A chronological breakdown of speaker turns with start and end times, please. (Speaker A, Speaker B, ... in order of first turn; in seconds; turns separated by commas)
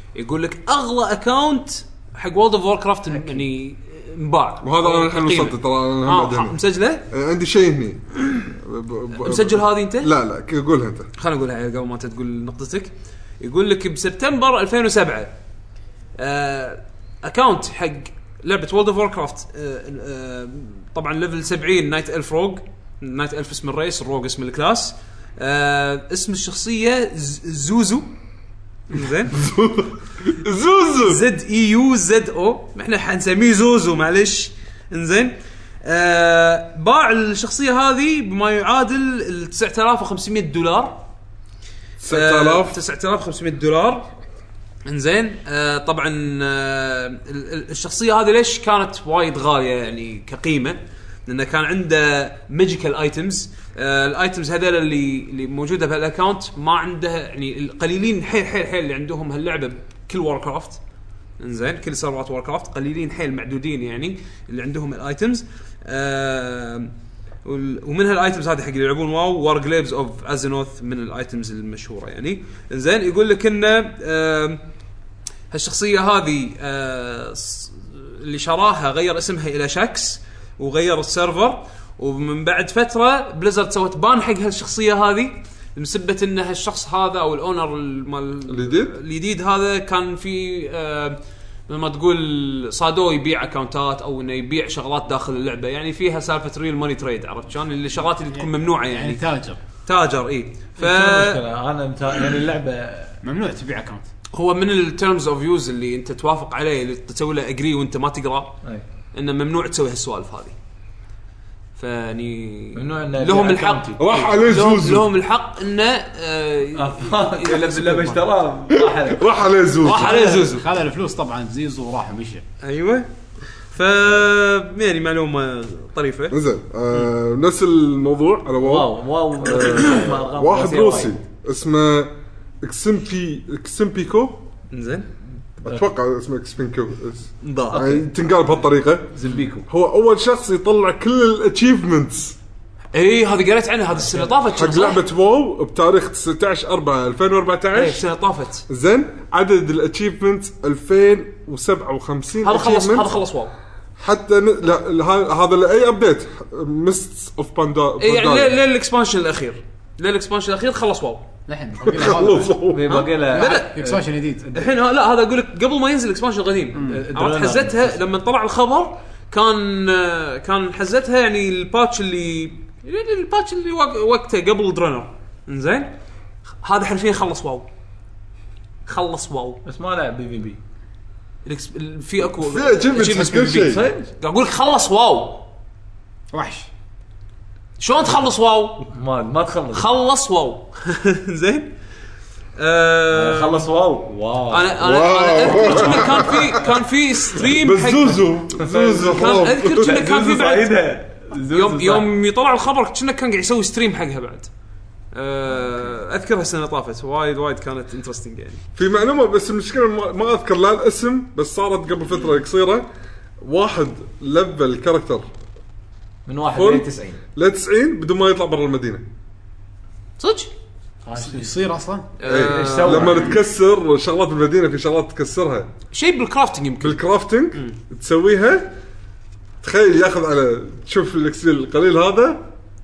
Speaker A: 0.1-7.0, Speaker B: 4.6-11.1, Speaker A: 9.2-10.1, Speaker A: 11.2-15.3, Speaker A: 16.2-28.1, Speaker A: 28.9-29.4, Speaker B: 29.3-31.3, Speaker A: 31.0-41.0, Speaker B: 42.0-42.8, Speaker A: 42.1-44.1, Speaker A: 44.8-60.8, Speaker A: 61.4-66.9, Speaker A: 67.4-74.6, Speaker A: 75.5-99.2, Speaker B: 88.5-88.9, Speaker C: 98.3-99.6, Speaker A: 99.8-101.4, Speaker D: 100.8-103.2, Speaker C: 103.2-104.1, Speaker A: 104.3-108.6, Speaker A: 109.1-110.5, Speaker A: 111.8-118.3, Speaker D: 112.7-114.0, Speaker B: 114.0-115.1, Speaker D: 116.7-120.5, Speaker B: 118.8-120.1, Speaker A: 119.8-120.6, Speaker C: 120.1-122.4, Speaker A: 122.6-126.4, Speaker B: 126.3-134.5, Speaker D: 128.6-131.2, Speaker A: 134.7-135.1, Speaker B: 135.6-142.4, Speaker A: 137.4-137.8, Speaker D: 137.7-138.1, Speaker D: 139.1-139.7, Speaker A: 142.9-145.0, Speaker D: 144.0-144.3, Speaker B: 144.5-148.0, Speaker A: 147.7-148.6, Speaker B: 148.7-153.1, Speaker A: 152.4-153.5, Speaker B: 154.0-158.5, Speaker A: 158.0-161.2, Speaker C: 161.5-164.5, Speaker B: 161.8-163.0, Speaker D: 162.7-164.7, Speaker A: 162.9-163.7, Speaker A: 164.5-175.9, Speaker C: 166.7-167.1, Speaker D: 166.8-168.0, Speaker A: 176.6-177.7, Speaker A: 178.8-179.6, Speaker D: 179.6-180.6, Speaker A: 181.4-185.4, Speaker B: 182.4-183.8, Speaker D: 183.6-184.1, Speaker C: 186.3-186.7, Speaker A: 187.8-188.9, Speaker D: 188.9-189.8, Speaker A: 189.7-191.7, Speaker A: 192.6-193.7, Speaker D: 193.1-194.8, Speaker A: 194.5-198.2, Speaker B: 194.8-196.7, Speaker D: 195.6-196.3, Speaker B: 197.3-200.1, Speaker D: 198.6-202.1, Speaker A: 198.8-200.9, Speaker A: 201.5-204.5, Speaker A: 205.1-208.6, Speaker B: 208.8-212.9, Speaker B: 213.4-215.3, Speaker D: 216.2-217.2, Speaker B: 216.5-219.0, Speaker A: 220.2-220.5, Speaker D: 221.0-221.6, Speaker C: 221.2-222.1, Speaker A: 222.2-223.3, Speaker D: 222.2-223.4, Speaker B: 222.2-225.7, Speaker A: 225.9-227.0, Speaker B: 226.8-228.7, Speaker B: 229.6-232.5